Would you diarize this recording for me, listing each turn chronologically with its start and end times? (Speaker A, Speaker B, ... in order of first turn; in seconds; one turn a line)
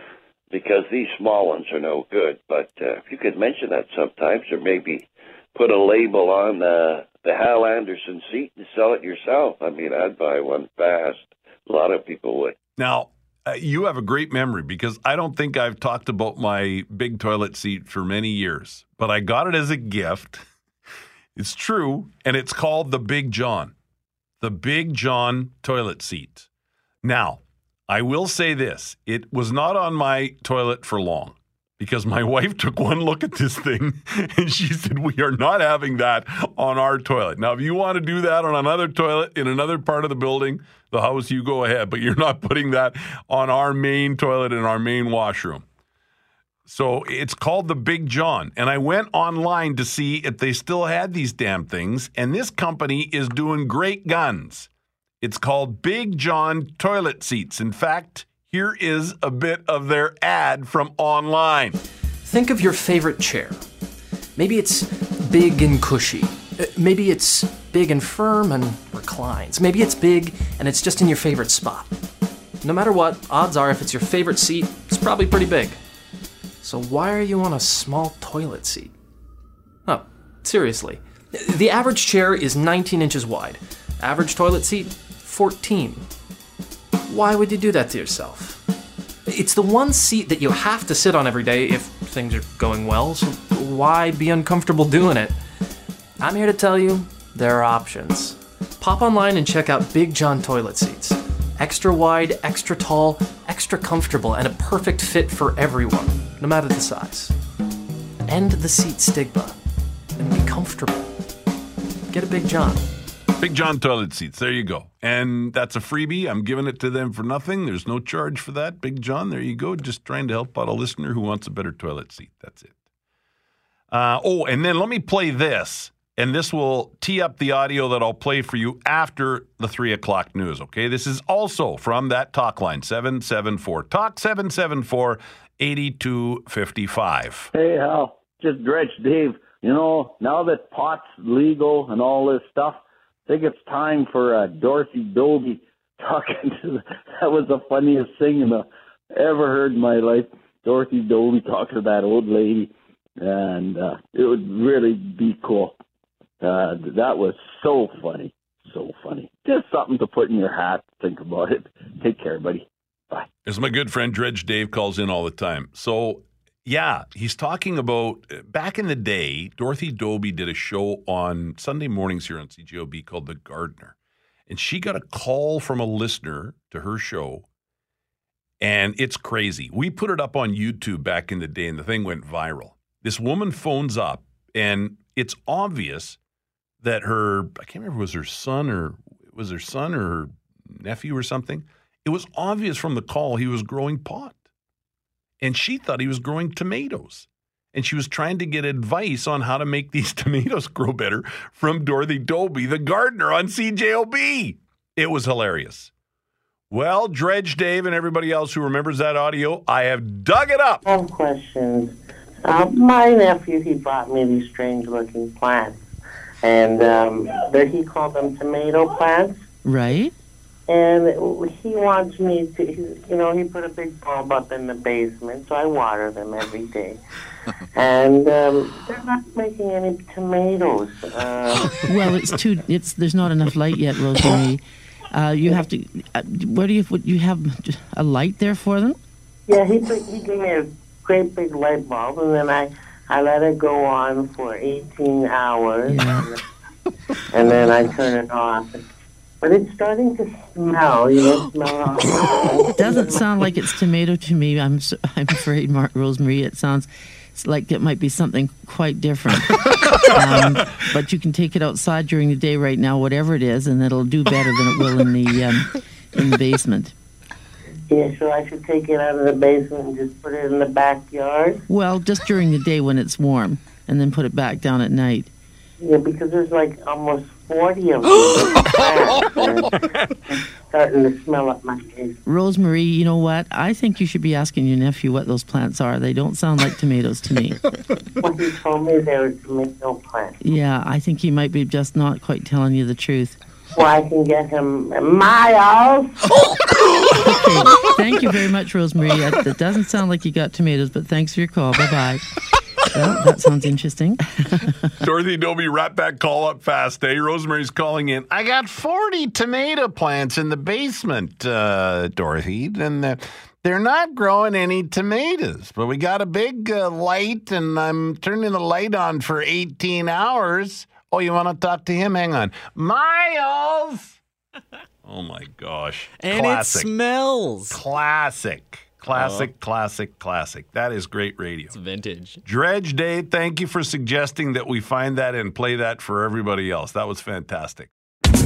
Speaker A: 0.5-12.5
Speaker B: 12.8-20.4
Speaker B: 21.4-23.7
Speaker B: 24.4-26.5
Speaker B: 27.0-45.6
Speaker B: 46.6-54.7
Speaker B: 55.2-61.8
Speaker C: 62.2-63.6
Speaker C: 64.4-71.9
Speaker C: 72.6-75.8
Speaker C: 76.6-78.9
Speaker C: 79.9-86.1
Speaker C: 87.1-88.6
Speaker C: 89.3-95.3
Speaker C: 96.2-107.3
Speaker C: 108.3-109.5
Speaker C: 110.2-111.1
Speaker C: 112.1-112.8
Speaker B: 113.4-122.8
Speaker B: 123.9-137.5
Speaker D: 137.5-155.8
Speaker D: 156.4-163.2
Speaker B: 163.4-173.9
Speaker B: 174.5-177.4
Speaker B: 178.6-186.2
Speaker B: 186.8-194.4
Speaker B: 195.4-205.9
Speaker B: 206.7-210.8
Speaker E: 210.8-215.8
Speaker E: 216.4-219.3
Speaker F: 219.6-220.1
Speaker E: 220.7-227.0
Speaker E: 227.7-231.8
Speaker F: 231.7-234.6
Speaker F: 235.1-239.0
Speaker E: 239.5-246.4
Speaker F: 245.8-246.2
Speaker E: 247.3-248.8
Speaker E: 249.4-253.3
Speaker F: 252.8-266.9
Speaker E: 267.9-271.6
Speaker F: 271.7-275.3
Speaker E: 275.8-282.2
Speaker F: 282.2-287.6
Speaker E: 288.2-290.4
Speaker F: 290.4-293.4
Speaker E: 293.7-296.2
Speaker F: 297.0-302.2
Speaker F: 302.9-304.9
Speaker B: 305.0-324.2
Speaker B: 325.0-326.9
Speaker G: 326.2-327.8
Speaker B: 327.7-331.8
Speaker G: 329.1-329.5
Speaker G: 331.7-332.4
Speaker B: 332.4-337.9